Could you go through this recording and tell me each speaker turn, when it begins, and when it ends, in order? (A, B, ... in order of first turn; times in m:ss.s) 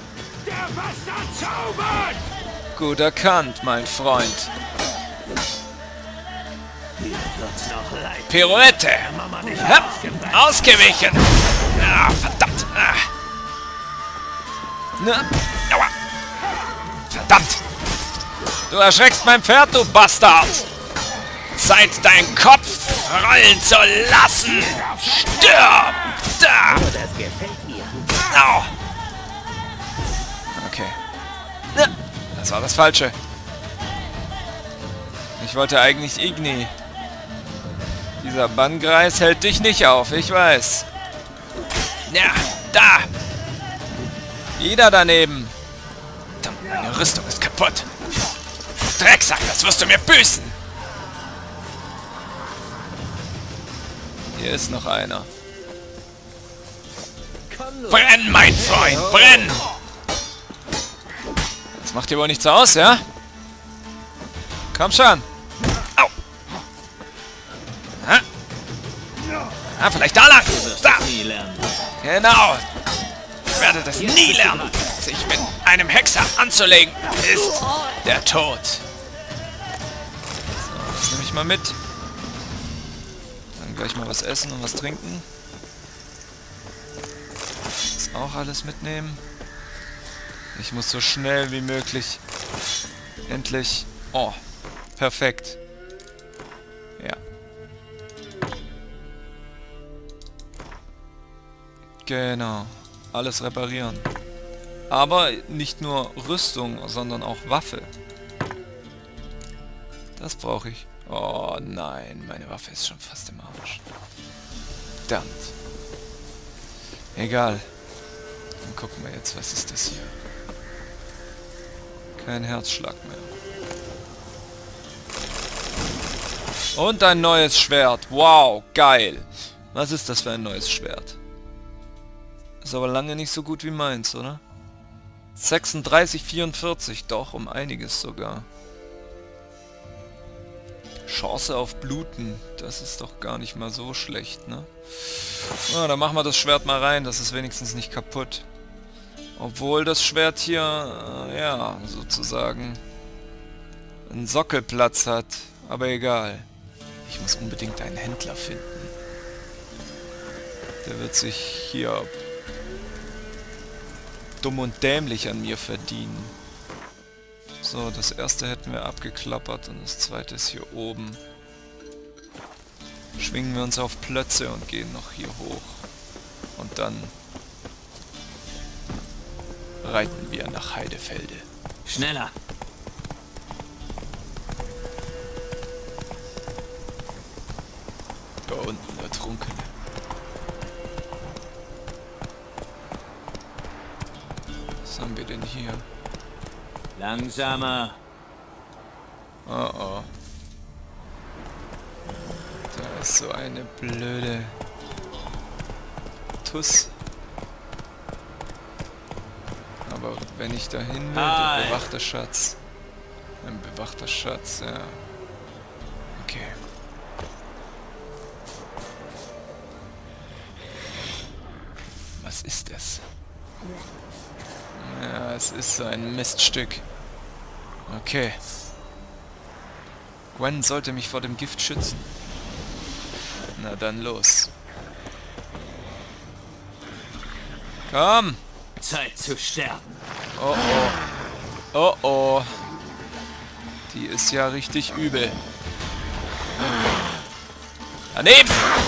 0:00.4-0:02.2 A
0:02.7-0:04.5 B
0:07.0-0:10.6 A
0:08.3-0:13.1 B
0:15.0-0:15.9 B
0:17.1-0:17.6 B
0:18.7-0:20.7 B
0:21.6-0:26.9 B
0:26.8-0:27.9 A
0:28.3-0:28.7 B
0:30.5-0:31.0 B
0:31.7-0:33.2 B
0:35.4-0:36.7 B
0:38.2-0:40.9 B
0:42.1-0:43.1 B
0:44.6-0:45.6 B
0:46.4-0:47.9 B
0:49.0-0:50.6 B
0:54.3-0:55.3 B
0:57.5-0:58.0 A
0:57.9-0:59.6 B
0:58.7-0:59.5 A
1:01.8-1:03.0 B
1:04.7-1:05.3 B
1:09.7-1:11.1 B
1:10.8-1:11.6 A
1:12.0-1:12.6 B
1:13.5-1:18.8 B
1:14.0-1:14.8 A
1:20.6-1:21.8 B
1:23.6-1:25.3 B
1:28.0-1:29.2 B
1:30.6-1:32.2 B
1:33.3-1:34.4 B
1:35.0-1:35.6 B
1:42.0-1:44.1 B
1:44.9-1:47.9 B
1:50.2-1:53.8 B
1:55.1-1:55.5 B
1:57.2-1:57.7 B
1:58.6-2:00.2 B
2:02.2-2:03.3 B
2:06.7-2:11.2 B
2:12.6-2:14.4 B
2:15.4-2:18.5 B
2:21.1-2:28.5 B
2:29.4-2:32.8 B
2:34.1-2:36.5 B
2:37.0-2:38.9 B
2:40.8-2:42.1 B
2:44.4-2:46.4 B
2:47.6-2:51.2 B
2:53.2-2:55.8 B
2:56.6-2:57.1 B
2:59.8-3:01.5 B
3:01.8-3:02.3 C
3:08.5-3:09.7 B
3:14.8-3:15.8 B
3:17.0-3:18.0 C
3:19.5-3:20.1 B
3:22.7-3:24.6 B
3:26.4-3:26.9 B
3:29.9-3:32.6 B
3:31.2-3:31.8 C
3:31.2-3:31.6 A
3:33.4-3:35.0 B
3:36.2-3:36.6 B
3:42.2-3:43.0 B
3:44.8-3:46.8 B
3:47.9-3:48.4 B
3:50.4-3:52.1 B
3:53.6-3:54.5 B
3:57.9-3:58.4 B
3:58.8-3:59.5 A
3:58.9-3:59.8 C
4:00.4-4:01.0 B
4:01.7-4:02.6 B
4:03.9-4:05.4 B
4:08.1-4:08.6 B